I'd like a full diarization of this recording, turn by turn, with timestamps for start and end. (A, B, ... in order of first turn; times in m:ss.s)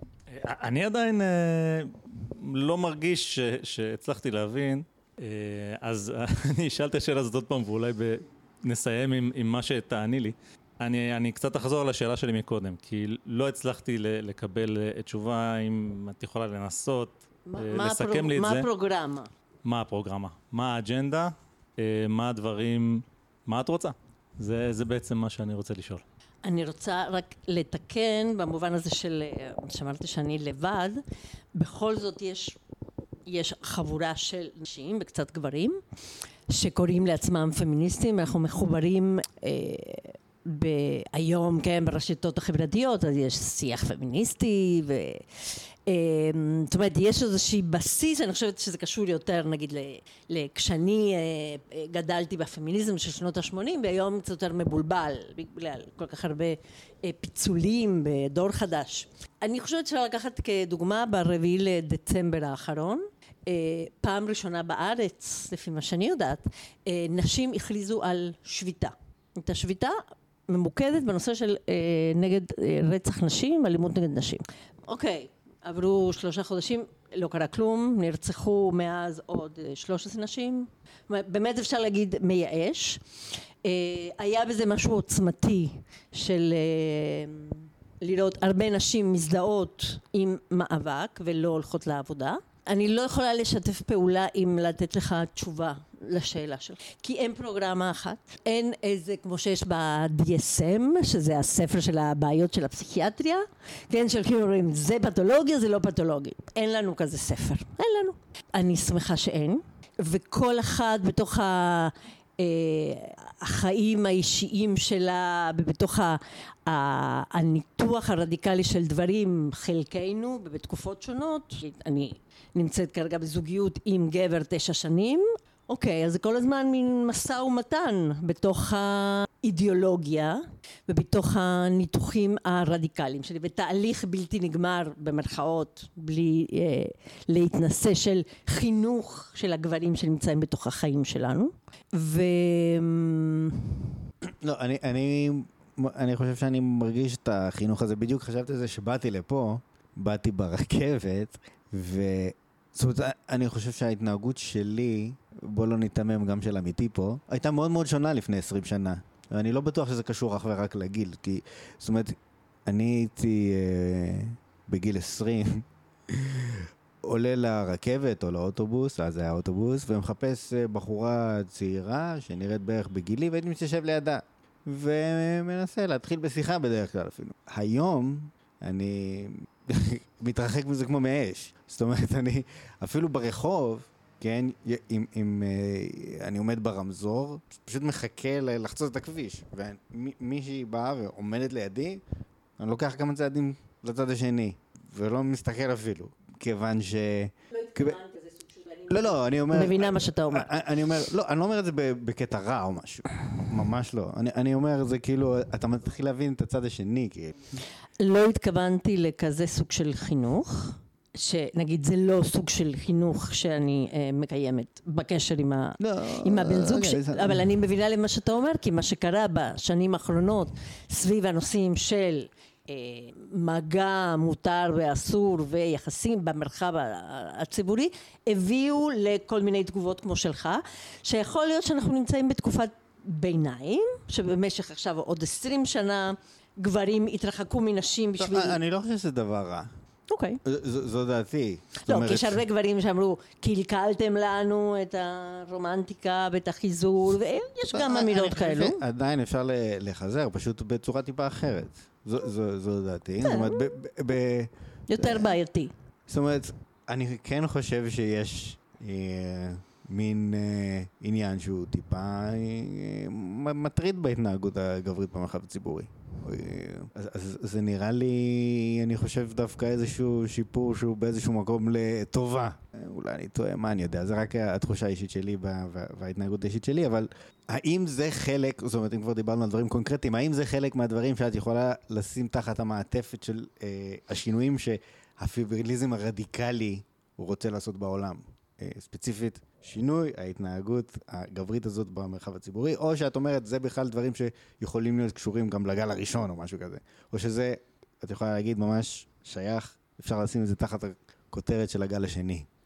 0:00.3-0:18.7 A
0:17.4-0:19.3 B
0:19.6-0:26.0 A
0:26.4-0:31.0 B
0:31.5-0:32.6 B
0:33.3-0:35.8 B
0:36.5-0:45.2 B
0:45.8-1:10.0 B
1:10.5-1:23.0 B
1:23.6-2:23.9 B
2:24.3-3:12.0 C
3:12.6-3:18.0 C
3:17.5-3:20.5 B
3:18.9-3:27.4 C
3:28.0-3:58.6 B
3:35.8-3:37.5 C
3:58.2-3:59.7 C
4:00.1-4:00.4 B
4:00.4-4:02.4 C
4:01.8-4:08.8 B
4:07.7-4:15.4 C
4:13.2-4:13.6 B
4:14.9-4:15.7 B
4:16.1-5:02.5 C